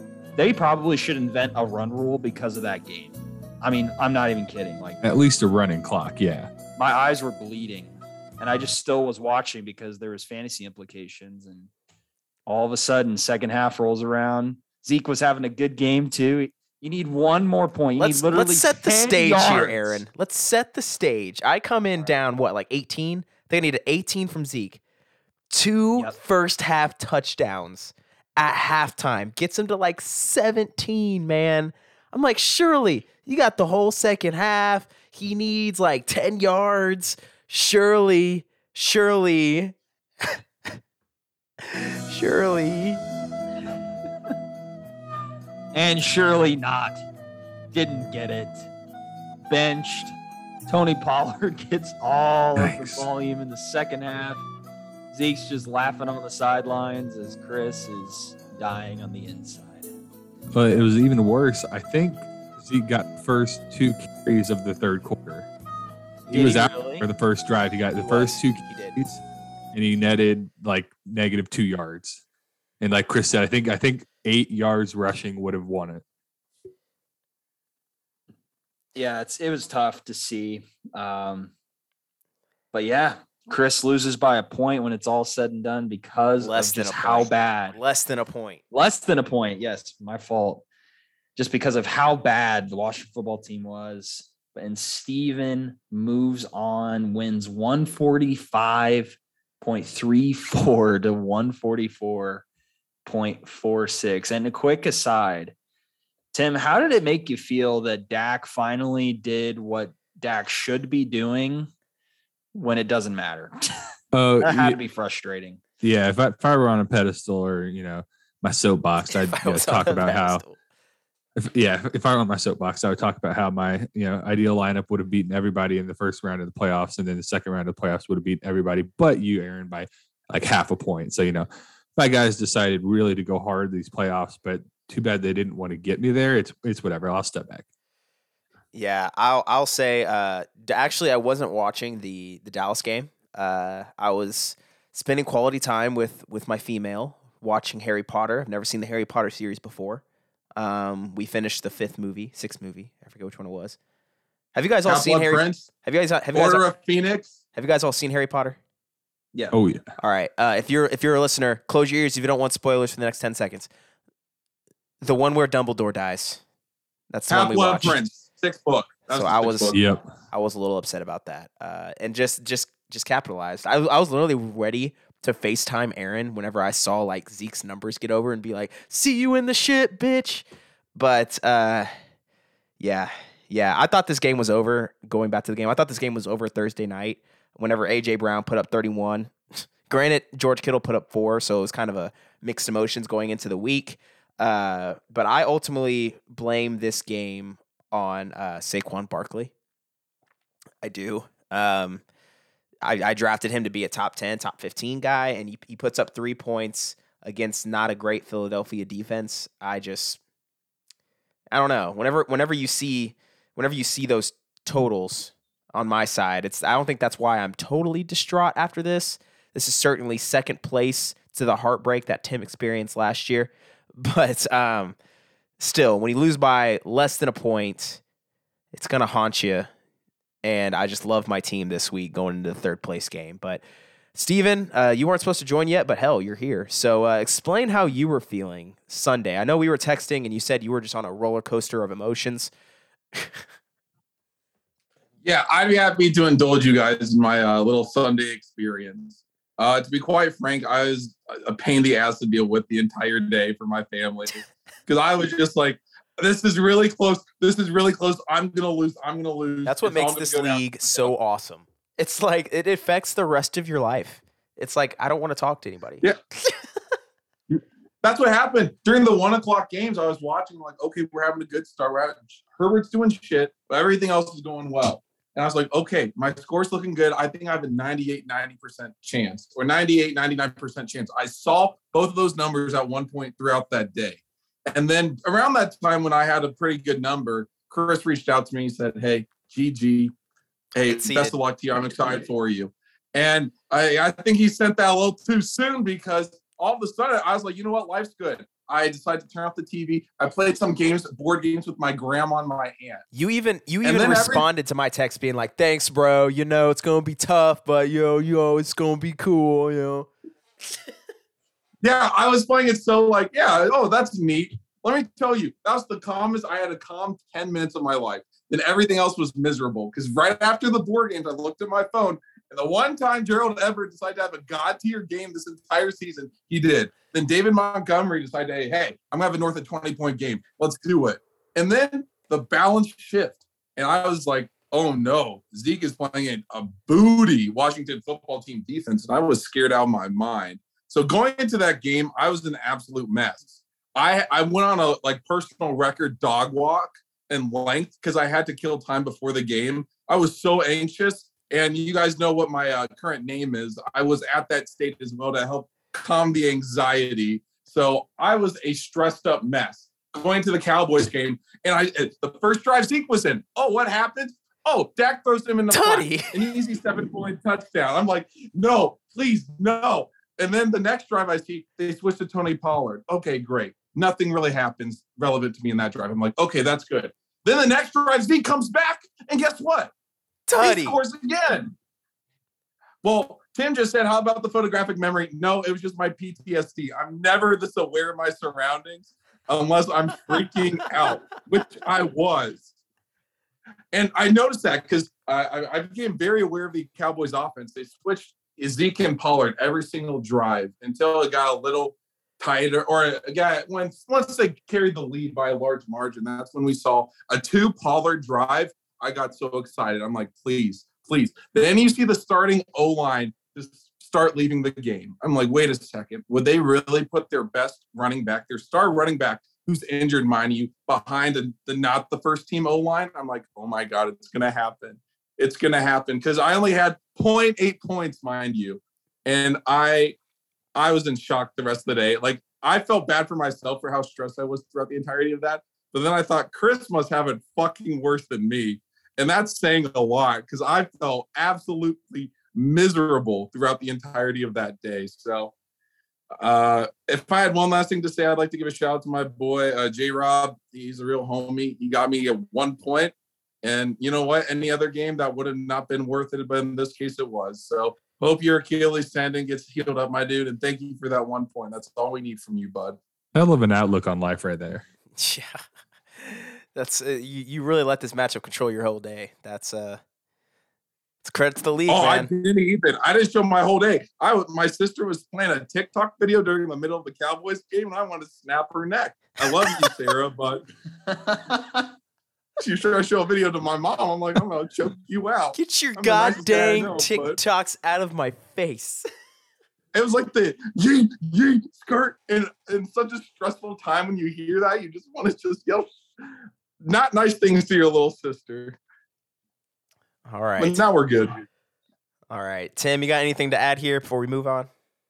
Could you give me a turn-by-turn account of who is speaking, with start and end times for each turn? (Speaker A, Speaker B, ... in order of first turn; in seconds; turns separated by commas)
Speaker A: 0.3-5.0, Speaker B: 5.0-6.5, Speaker A: 6.8-11.7, Speaker A: 12.5-20.0, Speaker C: 18.0-24.8, Speaker C: 25.5-40.4, Speaker C: 41.6-43.0, Speaker A: 45.7-47.0, Speaker A: 47.7-48.7, Speaker A: 49.5-50.2, Speaker A: 50.7-54.5, Speaker B: 52.6-53.1, Speaker A: 55.1-59.9, Speaker B: 60.5-65.5, Speaker A: 66.3-67.1, Speaker B: 66.3-69.2, Speaker C: 68.0-69.0, Speaker B: 69.7-72.2, Speaker B: 72.8-76.0, Speaker A: 79.0-81.5, Speaker A: 82.7-87.8, Speaker C: 86.4-88.6, Speaker A: 88.7-90.7, Speaker A: 91.4-102.5, Speaker A: 103.0-105.5, Speaker A: 106.3-111.7, Speaker A: 112.5-113.6, Speaker B: 114.1-114.8, Speaker A: 114.4-115.6, Speaker B: 115.8-120.4, Speaker C: 119.1-120.6, Speaker B: 121.4-137.7, Speaker C: 138.7-150.0, Speaker C: 150.6-153.8, Speaker C: 154.6-156.7, Speaker D: 154.9-155.7, Speaker D: 156.3-157.3, Speaker C: 157.5-158.6, Speaker B: 159.5-159.9, Speaker C: 160.0-163.7, Speaker C: 165.0-166.4, Speaker C: 167.1-168.0, Speaker D: 167.3-169.8, Speaker C: 169.1-169.8, Speaker B: 169.7-170.1, Speaker C: 170.3-181.9, Speaker C: 182.8-199.5, Speaker C: 200.8-202.0, Speaker C: 202.8-210.2, Speaker C: 211.5-225.0, Speaker C: 225.6-228.0, Speaker C: 228.7-229.7, Speaker C: 230.4-233.6, Speaker C: 234.2-242.5, Speaker D: 245.2-261.1, Speaker C: 259.7-266.6, Speaker D: 267.5-290.1, Speaker D: 290.8-303.0, Speaker C: 290.9-291.4, Speaker C: 303.1-310.1, Speaker D: 303.8-304.5, Speaker D: 311.8-379.9, Speaker C: 365.7-366.4, Speaker C: 380.5-381.0, Speaker D: 380.6-381.7, Speaker D: 383.0-392.7, Speaker D: 393.9-430.2, Speaker D: 430.8-445.5, Speaker D: 446.4-463.0, Speaker B: 463.3-464.8, Speaker C: 465.2-465.6, Speaker C: 466.2-470.0, Speaker C: 471.2-472.3, Speaker D: 471.9-480.6, Speaker A: 481.1-481.9, Speaker D: 482.6-487.4, Speaker C: 485.5-489.1, Speaker D: 489.9-495.9, Speaker D: 496.8-498.8, Speaker C: 500.3-500.8, Speaker D: 500.6-501.5, Speaker C: 502.3-504.7